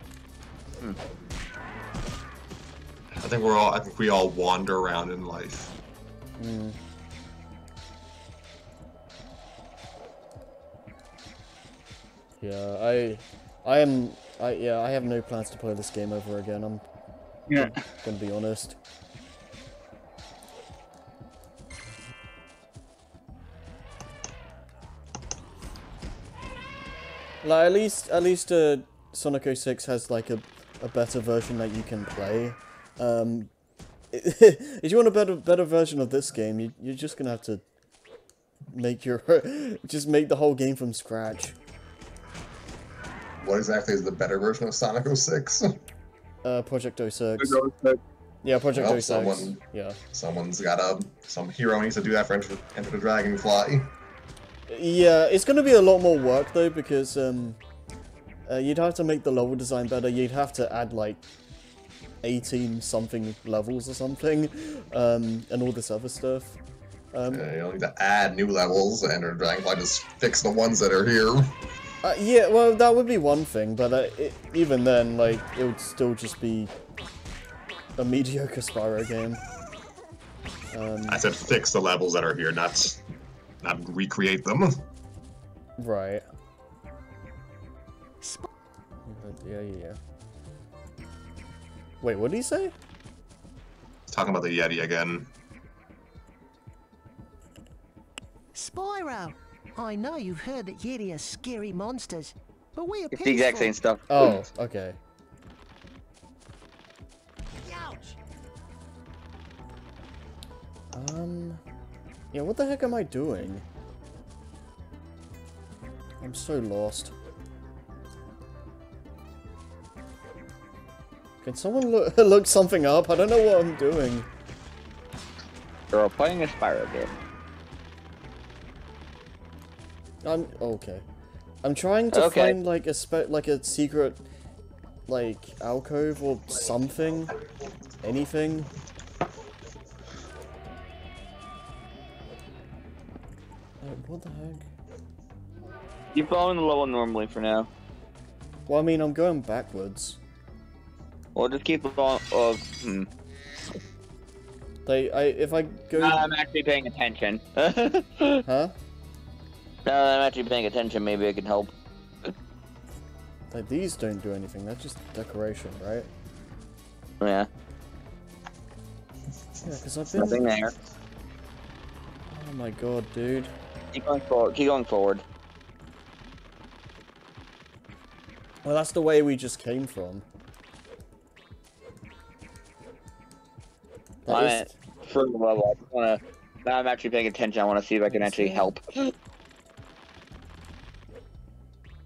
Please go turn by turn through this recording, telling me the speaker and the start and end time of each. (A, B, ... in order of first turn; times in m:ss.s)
0:03.1-0:05.7 A
0:06.4-0:06.8 B
0:12.4-0:16.8 B
0:17.5-0:17.8 C
0:17.6-0:18.8 B
0:27.4-0:33.5 B
0:34.1-0:37.6 B
0:38.7-0:41.6 B
0:43.4-0:45.8 A
0:46.4-0:47.6 B
0:47.4-0:48.0 C
0:48.4-0:50.0 B
0:48.7-0:49.6 A
0:50.1-0:53.9 A
0:54.7-0:57.6 B
0:58.5-1:01.2 B
1:02.2-1:06.6 B
1:07.1-1:07.5 B
1:07.3-1:11.5 A
1:12.0-1:16.7 B
1:18.0-1:19.4 B
1:20.7-1:21.2 B
1:21.1-1:23.0 A
1:23.6-1:24.8 A
1:25.8-1:26.2 B
1:28.2-1:28.5 D
1:29.0-1:30.0 B
1:32.0-1:32.7 B
1:34.1-1:35.3 A
1:38.6-1:43.8 D
1:43.1-1:44.3 C
1:44.1-1:45.0 B
1:50.9-1:51.6 B
1:52.3-1:53.6 B
1:56.2-1:57.1 B
2:01.4-2:04.3 B
2:05.9-2:07.1 C
2:10.2-2:11.0 B
2:11.6-2:14.2 B
2:12.1-2:12.5 C
2:15.1-2:17.4 B
2:18.0-2:18.7 B
2:23.8-2:24.6 B
2:26.1-2:27.7 C
2:28.7-2:30.2 B
2:31.3-2:33.1 C
2:34.8-2:36.2 B
2:36.0-2:38.4 C
2:38.4-2:38.7 B
2:39.8-2:41.7 C
2:43.5-2:46.1 B
2:47.2-2:47.5 C
2:49.6-2:50.4 B
2:50.1-2:50.7 C
2:52.3-2:53.5 B
2:53.9-2:55.2 C
2:58.6-3:00.2 B
3:04.2-3:04.7 B
3:04.3-3:09.1 C
3:08.1-3:08.7 B